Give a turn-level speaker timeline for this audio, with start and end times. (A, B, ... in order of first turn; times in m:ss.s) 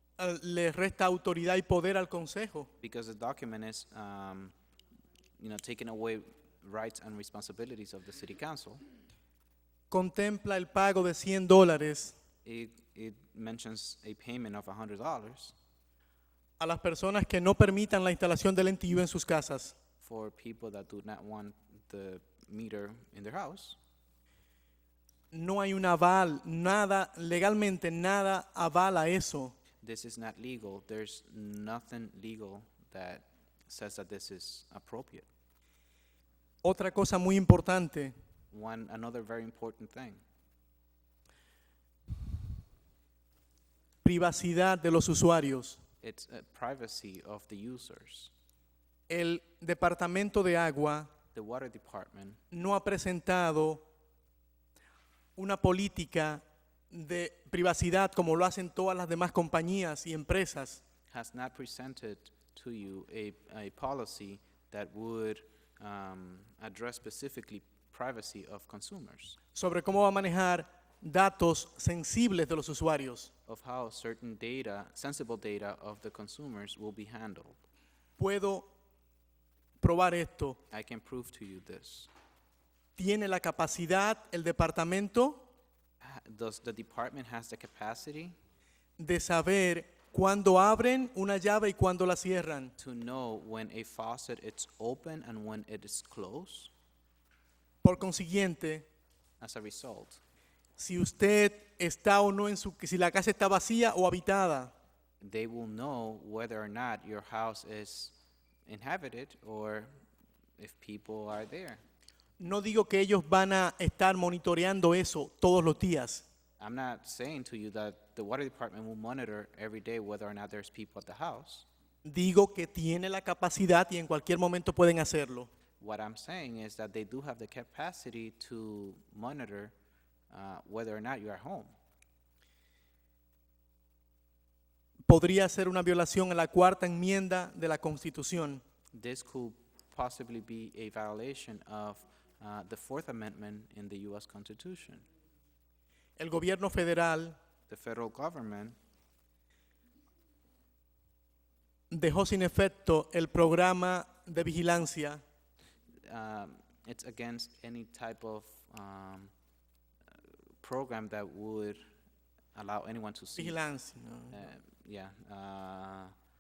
0:00.2-0:02.7 A
0:02.8-0:04.5 B
0:05.4-0:08.8 B
0:09.9-0:12.2 A
0:12.4-0:15.6 B
0:16.6-0:19.8 A
0:20.0-0:23.8 B
0:25.3-0:29.6 A
0:29.8-0:35.3 B
0:36.6-0:38.1 A
0:38.5-0:40.2 B
0:44.0-0:45.8 A
0:46.0-0:48.3 B
0:49.1-0:51.1 A
0:51.3-0:52.4 B
0:52.5-0:53.8 A
0:55.4-1:00.8 A
1:01.1-1:09.4 B
1:09.6-1:13.3 A
1:13.5-1:17.6 B
1:18.2-1:18.7 A
1:19.8-1:20.6 A
1:20.7-1:22.1 B
1:23.0-1:25.4 A
1:26.0-1:28.4 B
1:29.0-1:32.7 A
1:32.8-1:36.7 B
1:37.8-1:38.9 A
1:39.4-1:40.2 B
1:40.8-1:44.7 A
1:45.2-1:48.2 B
1:48.7-1:49.9 B
1:50.6-1:51.8 B
1:52.4-1:56.3 A
1:56.6-2:01.7 B
2:02.0-2:05.5 A
2:05.8-2:09.7 B
2:10.3-2:11.7 B
2:15.1-2:18.6 A
2:18.9-2:25.1 B
2:26.2-2:27.4 A
2:27.7-2:28.8 B
2:31.9-2:35.2 A
2:36.1-2:39.3 B
2:40.1-2:41.8 B
2:42.6-2:43.6 B
2:43.4-2:44.4 A
2:44.3-2:46.1 B